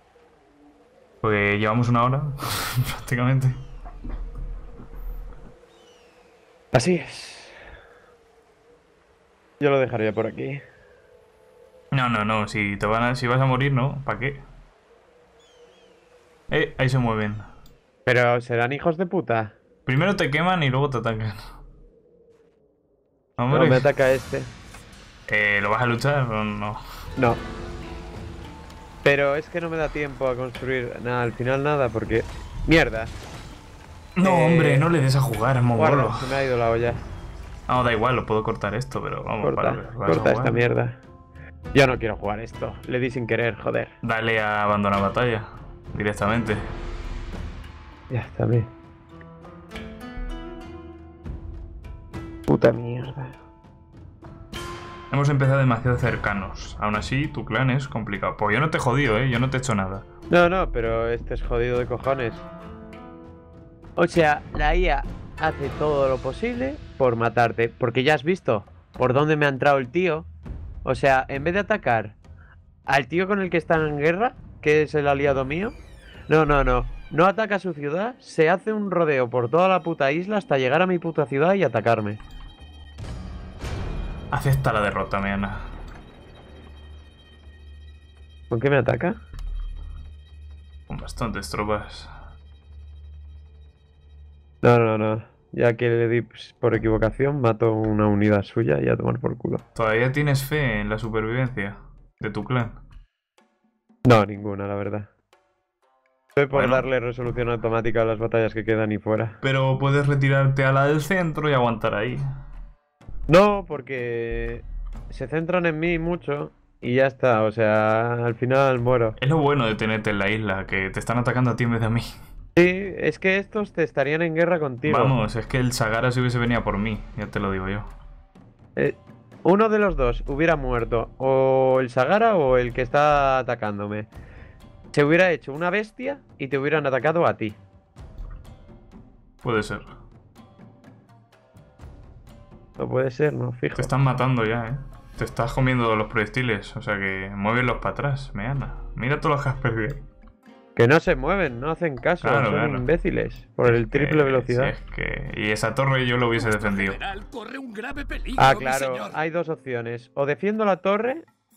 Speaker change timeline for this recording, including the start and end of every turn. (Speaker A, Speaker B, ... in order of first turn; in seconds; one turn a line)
Speaker A: 1.2-3.6
Speaker B: 6.7-7.6
Speaker B: 9.6-10.6
Speaker A: 11.9-14.4
Speaker A: 16.5-17.4
Speaker B: 18.1-19.6
Speaker A: 19.9-21.4
Speaker A: 23.4-23.9
Speaker B: 23.5-24.5
Speaker A: 25.3-26.8
Speaker B: 29.0-33.1
Speaker A: 34.1-36.3
Speaker B: 34.2-34.9
Speaker B: 35.8-37.0
Speaker A: 37.7-40.6
Speaker B: 39.4-41.0
Speaker B: 41.7-43.9
Speaker A: 44.0-46.6
Speaker B: 48.1-48.7
Speaker B: 52.5-53.4
Speaker A: 55.1-60.0
Speaker B: 60.3-62.5
Speaker B: 64.0-70.3
Speaker B: 70.8-72.2
Speaker B: 72.9-82.2
Speaker A: 84.3-85.7
Speaker B: 88.5-89.2
Speaker A: 90.9-92.1
Speaker B: 94.6-99.6
Speaker A: 99.7-102.8
Speaker B: 104.0-105.1
Speaker B: 106.3-109.4
Speaker A: 106.5-106.8
Speaker A: 109.4-112.3
Speaker B: 113.3-119.2
Speaker A: 119.2-122.1
Speaker B: 122.5-125.2
Speaker A: 124.8-127.9
Speaker B: 128.8-134.1
Speaker B: 134.9-137.6
Speaker A: 139.4-139.9
Speaker B: 142.8-143.9
Speaker A: 143.7-150.0
Speaker B: 150.8-154.7
Speaker A: 152.2-152.9
Speaker A: 153.6-157.0
Speaker C: 156.3-159.2
Speaker B: 158.4-161.2